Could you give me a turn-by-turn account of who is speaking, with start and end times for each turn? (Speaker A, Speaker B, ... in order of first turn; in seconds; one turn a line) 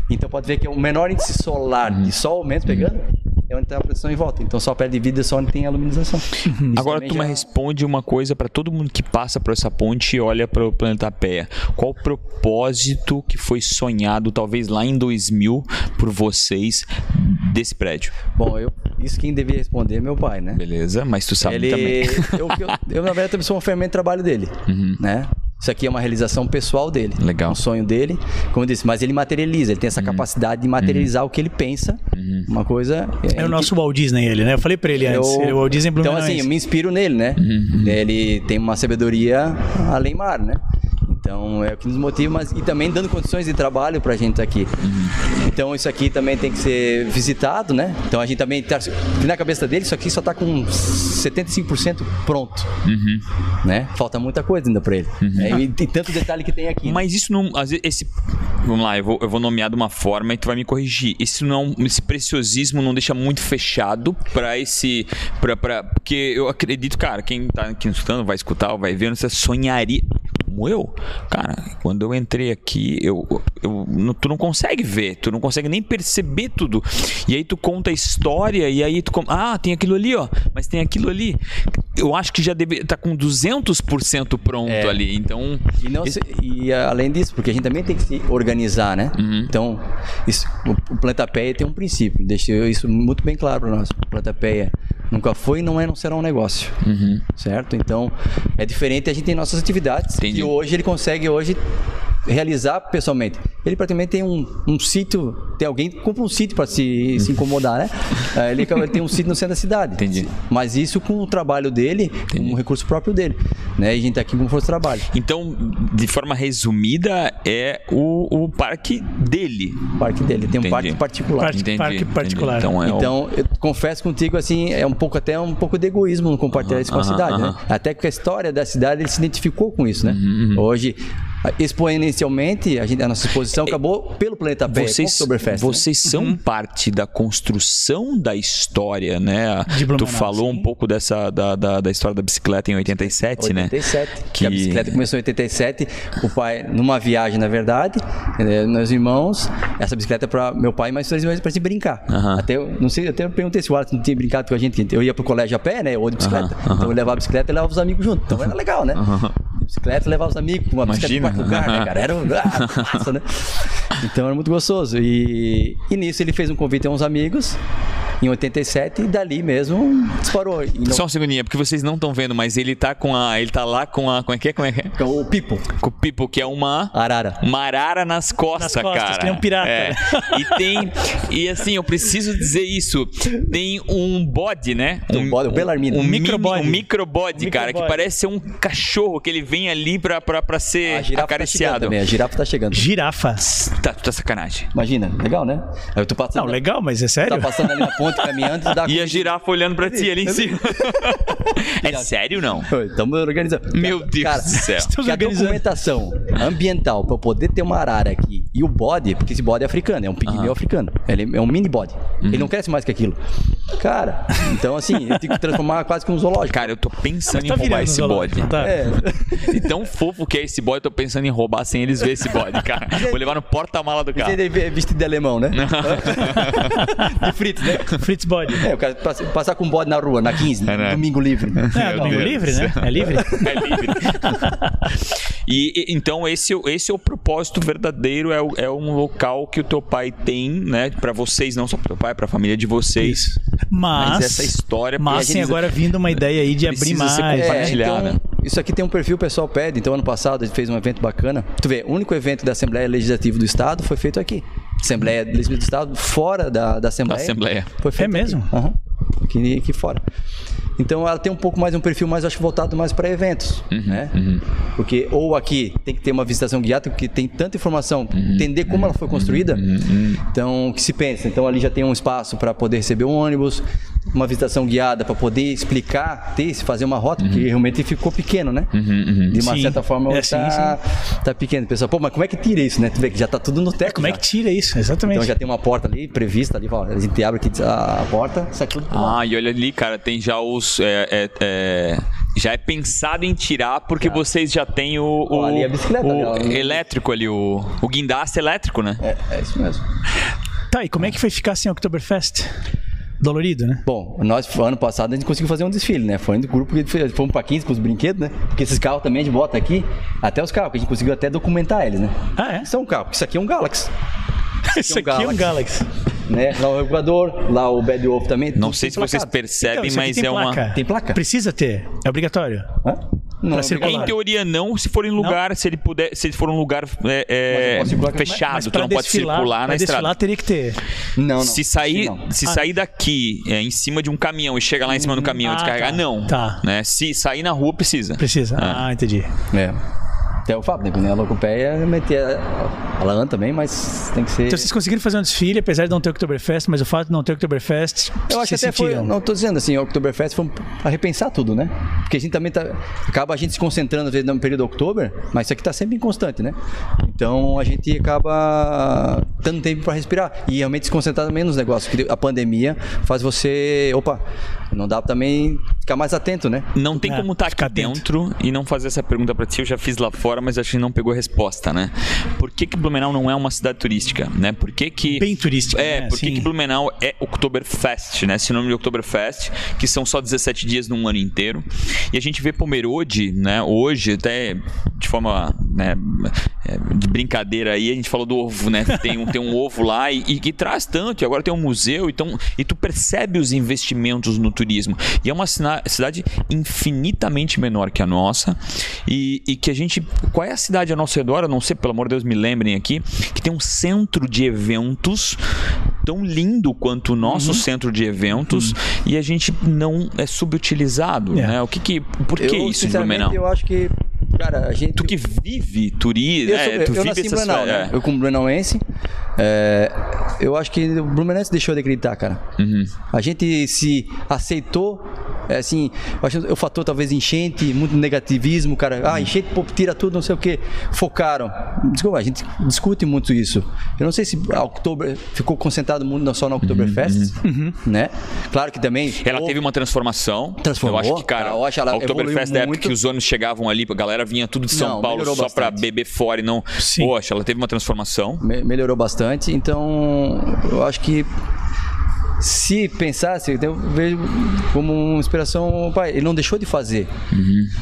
Speaker A: 0.1-7.5
Speaker B: 6.5-6.8
Speaker C: 6.7-18.2
Speaker A: 18.4-20.6
Speaker C: 20.5-22.8
Speaker A: 21.4-33.7
Speaker C: 24.7-25.0
Speaker C: 27.2-27.6
Speaker C: 30.0-30.3
Speaker C: 30.8-31.1
Speaker C: 32.1-32.5
Speaker B: 33.4-36.5
Speaker A: 35.0-52.7
Speaker C: 37.4-38.0
Speaker C: 44.8-45.1
Speaker C: 52.8-53.2
Speaker A: 53.6-57.0
Speaker C: 55.2-55.6
Speaker C: 56.9-86.2
Speaker A: 84.7-85.0
Speaker A: 85.8-101.6
Speaker C: 89.2-89.5
Speaker C: 96.8-97.2
Speaker C: 100.2-100.6
Speaker A: 102.3-115.1
Speaker C: 110.0-110.3
Speaker C: 115.1-123.2
Speaker A: 120.0-121.6
Speaker B: 121.4-122.7
Speaker A: 122.8-135.9
Speaker C: 126.5-127.6
Speaker C: 130.1-130.7
Speaker C: 134.7-143.7
Speaker B: 136.1-136.4
Speaker B: 139.7-140.7
Speaker A: 143.4-167.6
Speaker C: 144.3-145.0
Speaker C: 152.1-152.4
Speaker C: 156.2-156.9
Speaker C: 158.9-159.3
Speaker C: 160.8-161.9
Speaker C: 162.4-163.1
Speaker A: 168.2-171.1
Speaker C: 170.8-175.0
Speaker A: 175.0-175.7
Speaker C: 175.7-192.0
Speaker A: 176.9-177.4
Speaker B: 178.6-180.8
Speaker A: 185.1-186.2
Speaker B: 186.0-186.8
Speaker B: 187.4-188.0
Speaker A: 190.8-192.9
Speaker B: 192.7-193.4
Speaker C: 193.4-194.7
Speaker A: 194.7-196.6
Speaker B: 196.3-198.2
Speaker A: 197.2-213.2
Speaker C: 198.8-202.7
Speaker C: 203.7-205.0
Speaker B: 204.6-205.7
Speaker C: 210.3-210.6
Speaker C: 212.2-212.5
Speaker A: 213.8-216.7
Speaker C: 216.5-224.4
Speaker B: 217.3-218.8
Speaker A: 218.6-219.7
Speaker A: 222.9-223.3
Speaker A: 224.2-232.4
Speaker C: 225.5-226.8
Speaker B: 226.8-227.2
Speaker B: 227.9-228.7
Speaker C: 230.7-231.0
Speaker C: 231.5-243.3
Speaker B: 231.7-234.9
Speaker A: 233.0-234.2
Speaker B: 243.0-247.8
Speaker C: 244.0-248.2
Speaker A: 245.1-245.6
Speaker A: 247.3-260.0
Speaker C: 257.1-257.7
Speaker B: 258.0-258.5
Speaker A: 260.8-264.2
Speaker C: 263.7-264.4
Speaker A: 264.8-269.6
Speaker C: 268.1-270.2
Speaker A: 270.3-278.7
Speaker C: 277.2-277.5
Speaker C: 278.7-279.4
Speaker A: 279.3-284.2
Speaker B: 279.4-280.8
Speaker B: 283.9-285.3
Speaker A: 285.1-289.2
Speaker C: 288.9-299.0
Speaker A: 295.3-296.9
Speaker A: 299.0-299.9
Speaker B: 300.7-302.5
Speaker B: 303.2-303.8
Speaker A: 303.9-313.9
Speaker B: 312.4-312.7
Speaker B: 314.7-315.9
Speaker A: 314.7-315.6
Speaker A: 316.3-319.3
Speaker C: 318.6-320.7
Speaker B: 319.6-322.7
Speaker A: 320.7-321.2
Speaker A: 322.8-324.1
Speaker B: 323.5-324.1
Speaker C: 323.8-330.2
Speaker A: 327.5-328.5
Speaker B: 328.4-330.8
Speaker A: 331.2-332.3
Speaker C: 331.4-338.9
Speaker A: 335.0-335.3
Speaker B: 335.4-336.6
Speaker B: 338.2-339.3
Speaker A: 339.5-339.8
Speaker A: 340.5-344.7
Speaker B: 344.5-349.1
Speaker A: 348.3-364.2
Speaker A: 364.7-366.7
Speaker C: 366.7-405.4
Speaker B: 367.0-368.0
Speaker B: 375.2-376.5
Speaker C: 406.0-413.4
Speaker A: 412.4-415.1
Speaker C: 415.0-418.0
Speaker A: 416.5-418.8
Speaker A: 419.4-422.4
Speaker C: 422.6-422.9
Speaker A: 423.1-439.6
Speaker C: 436.6-437.3
Speaker B: 437.4-437.8
Speaker C: 439.2-448.4
Speaker A: 440.6-442.9
Speaker A: 444.7-445.8
Speaker B: 446.8-447.1
Speaker A: 448.4-451.3
Speaker A: 452.4-457.1
Speaker C: 457.3-457.7